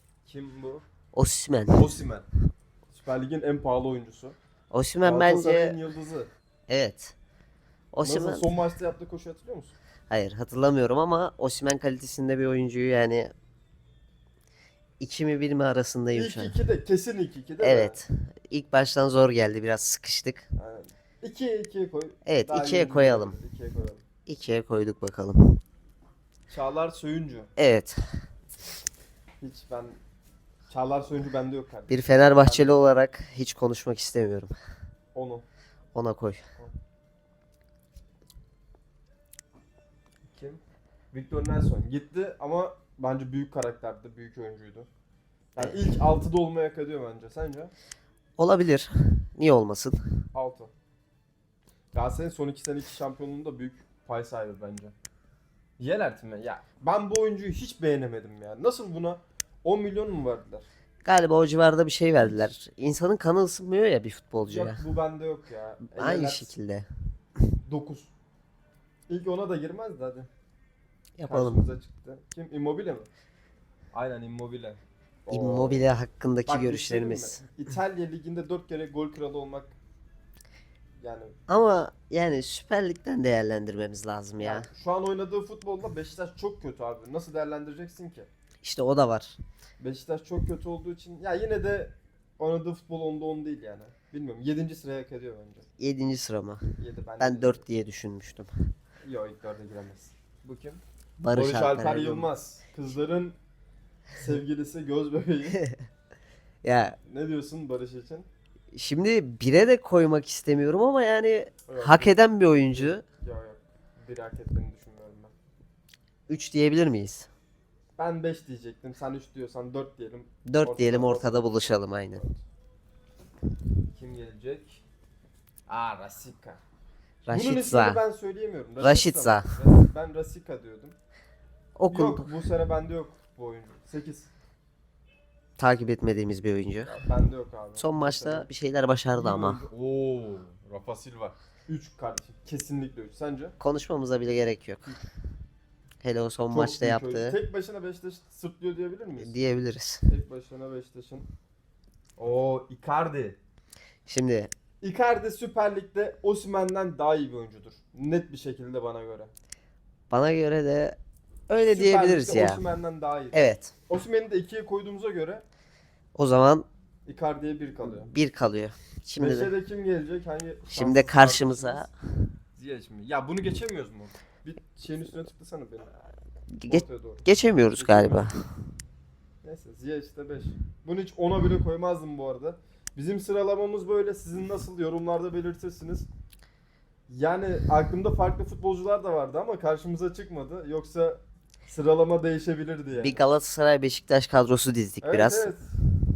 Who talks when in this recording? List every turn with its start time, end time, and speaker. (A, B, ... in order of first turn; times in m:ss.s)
0:00.2-0:00.8 A
0:01.1-0:01.9 B
0:01.7-0:02.2 A
0:02.9-0:04.4 A
0:04.7-0:05.7 B
0:05.0-0:06.3 A
0:06.7-0:07.1 B
0:07.9-0:08.5 B
0:08.0-0:09.8 A
0:10.1-0:13.3 B
0:15.0-0:16.6 B
0:16.1-0:18.0 A
0:17.6-0:20.5 B
0:20.6-0:24.0 A
0:22.2-0:23.3 B
0:24.3-0:25.6 B
0:26.5-0:27.5 A
0:27.6-0:28.0 B
0:29.4-0:30.0 A
0:30.7-0:32.8 A
0:31.9-0:34.5 B
0:35.1-0:35.4 A
0:35.9-0:36.4 B
0:40.3-0:40.6 A
0:41.1-0:44.9 A
0:45.6-0:47.7 A
0:45.6-0:46.0 B
0:48.4-0:50.0 B
0:50.3-0:50.7 A
0:51.9-0:54.9 A
0:55.8-1:00.7 A
1:01.0-1:04.8 B
1:02.2-1:02.4 A
1:04.4-1:06.5 A
1:05.9-1:06.9 B
1:07.7-1:08.1 A
1:09.1-1:10.3 A
1:11.2-1:11.7 B
1:11.3-1:13.1 A
1:13.9-1:15.9 A
1:15.3-1:17.4 B
1:16.4-1:19.8 A
1:21.0-1:21.3 A
1:21.5-1:24.7 B
1:24.4-1:28.3 A
1:28.6-1:29.4 B
1:29.8-1:35.7 A
1:35.8-1:38.5 B
1:36.8-1:37.6 A
1:39.0-1:43.4 A
1:41.2-1:42.3 B
1:44.1-1:45.6 A
1:46.6-1:47.0 B
1:47.0-1:48.3 A
1:48.7-1:53.0 B
1:51.7-1:55.3 A
1:56.3-1:57.3 B
1:58.0-2:02.4 A
2:00.4-2:02.2 B
2:03.9-2:04.8 A
2:05.7-2:06.6 A
2:07.2-2:08.0 B
2:07.3-2:10.9 A
2:08.8-2:09.6 B
2:11.8-2:12.3 B
2:11.9-2:14.3 A
2:15.6-2:17.0 B
2:16.9-2:18.5 A
2:17.8-2:19.6 B
2:19.1-2:23.6 A
2:23.6-2:25.0 B
2:26.0-2:27.4 B
2:26.5-2:29.4 A
2:29.2-2:30.0 B
2:30.1-2:31.3 A
2:32.2-2:33.4 A
2:34.0-2:34.5 B
2:34.8-2:39.3 A
2:40.1-2:42.6 B
2:41.6-2:45.4 A
2:43.3-2:43.7 B
2:46.1-2:46.7 B
2:47.0-2:48.1 A
2:48.0-2:49.5 B
2:49.2-2:51.9 A
2:50.7-2:51.9 B
2:52.6-2:55.9 A
2:56.6-2:58.4 B
2:56.7-2:58.3 A
2:59.4-3:06.1 A
3:07.1-3:13.2 A
3:12.9-3:15.5 B
3:15.0-3:15.7 A